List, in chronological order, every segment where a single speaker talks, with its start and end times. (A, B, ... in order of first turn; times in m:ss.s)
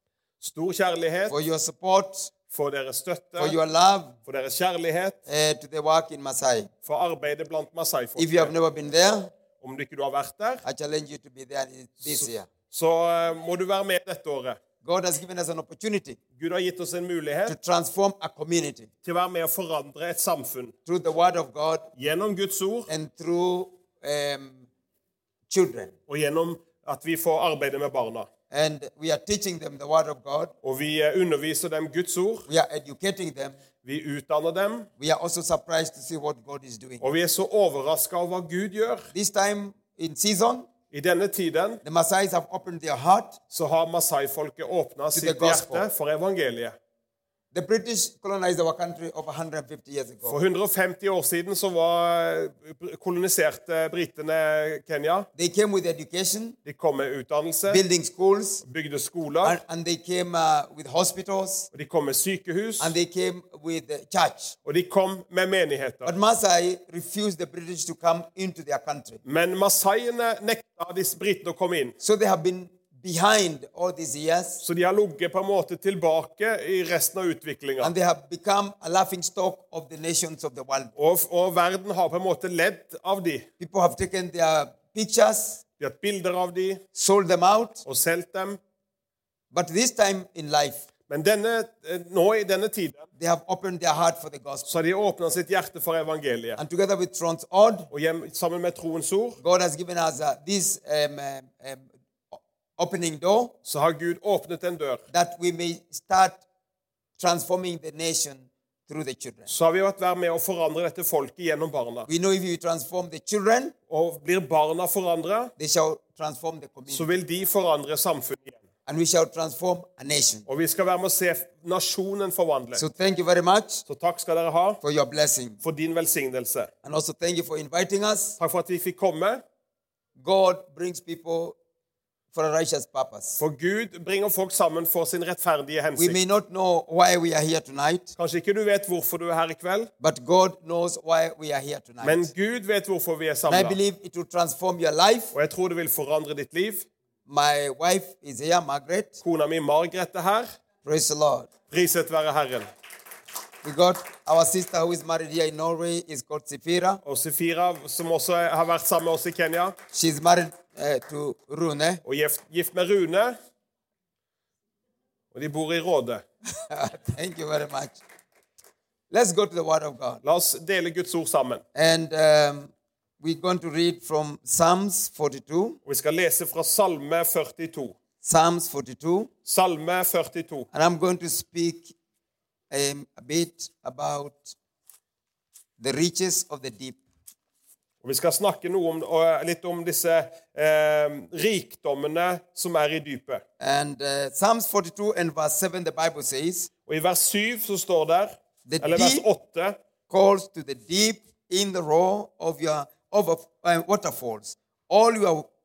0:00.4-0:01.3 A
0:01.3-0:02.3 B
0:02.5-0:03.6 A
0:03.4-0:04.2 B
0:04.2-0:05.2 A
0:05.3-0:06.7 B
0:06.8-0:08.5 A
0:08.2-0:09.3 B
0:09.6-0:10.6 A
0:10.6-0:12.5 B
0:12.1-0:14.6 A
0:14.8-0:16.2 B
0:16.4-0:17.6 A
0:17.4-0:18.9 B
0:19.0-0:20.7 A
0:20.8-0:21.9 B
0:22.0-0:22.9 A
0:22.9-0:24.7 B
0:25.5-0:25.9 B
0:26.1-0:28.3 A
0:28.5-0:30.5 B
0:30.6-0:32.4 A
0:32.5-0:33.6 B
0:33.8-0:34.9 A
0:35.0-0:37.0 B
0:37.0-0:39.1 A
0:39.1-0:40.7 B
0:40.9-0:41.8 A
0:41.8-0:43.4 B
0:43.5-0:46.8 A
0:45.1-0:45.9 B
0:47.5-0:50.4 B
0:50.3-0:55.3 A
0:55.4-0:56.6 B
0:56.6-0:57.8 A
0:57.7-0:58.6 B
0:58.6-0:59.6 A
0:59.4-1:01.7 B
1:01.7-1:02.9 A
1:02.8-1:04.6 B
1:04.6-1:06.1 A
1:06.0-1:09.2 B
1:09.2-1:11.9 A
1:12.0-1:14.6 B
1:14.6-1:17.9 A
1:17.8-1:20.9 B
1:21.0-1:23.4 A
1:23.6-1:25.6 B
1:25.8-1:26.8 A
1:26.9-1:27.8 B
1:27.8-1:28.6 A
1:29.5-1:30.8 B
1:31.1-1:33.0 A
1:33.2-1:34.7 B
1:34.7-1:36.6 A
1:36.6-1:37.9 B
1:37.9-1:39.4 A
1:39.4-1:43.5 B
1:43.6-1:45.0 A
1:45.1-1:46.4 B
1:47.2-1:49.5 B
1:49.5-1:52.1 A
1:52.1-1:53.7 B
1:53.9-1:55.5 A
1:55.6-1:57.1 B
1:56.9-1:58.6 A
1:58.8-2:00.4 B
2:00.5-2:02.8 A
2:02.7-2:03.8 B
2:03.9-2:04.8 A
2:04.8-2:05.6 B
2:05.6-2:06.7 A
2:06.8-2:08.4 B
2:08.4-2:09.4 A
2:10.2-2:11.6 B
2:12.3-2:13.4 B
2:13.4-2:16.2 A
2:16.0-2:18.1 B
2:18.2-2:19.9 A
2:20.0-2:22.3 B
2:22.0-2:23.8 A
2:23.5-2:25.3 B
2:25.3-2:26.9 A
2:27.2-2:29.2 B
2:29.2-2:30.5 A
2:30.8-2:31.5 B
2:31.7-2:32.7 A
2:33.6-2:37.0 B
2:37.0-2:39.7 A
2:39.9-2:42.0 B
2:42.0-2:43.3 A
2:45.3-2:46.2 A
2:46.7-2:48.0 B
2:49.1-2:50.2 B
2:50.2-2:51.6 A
2:51.7-2:55.8 B
2:55.8-2:57.9 A
2:58.2-2:59.3 B
2:59.4-3:00.7 A
3:00.7-3:01.9 B
3:02.7-3:04.6 B
3:05.8-3:07.0 B
3:08.0-3:13.4 A
3:13.6-3:16.7 B
3:16.9-3:19.8 A
3:18.6-3:19.2 B
3:20.1-3:25.5 B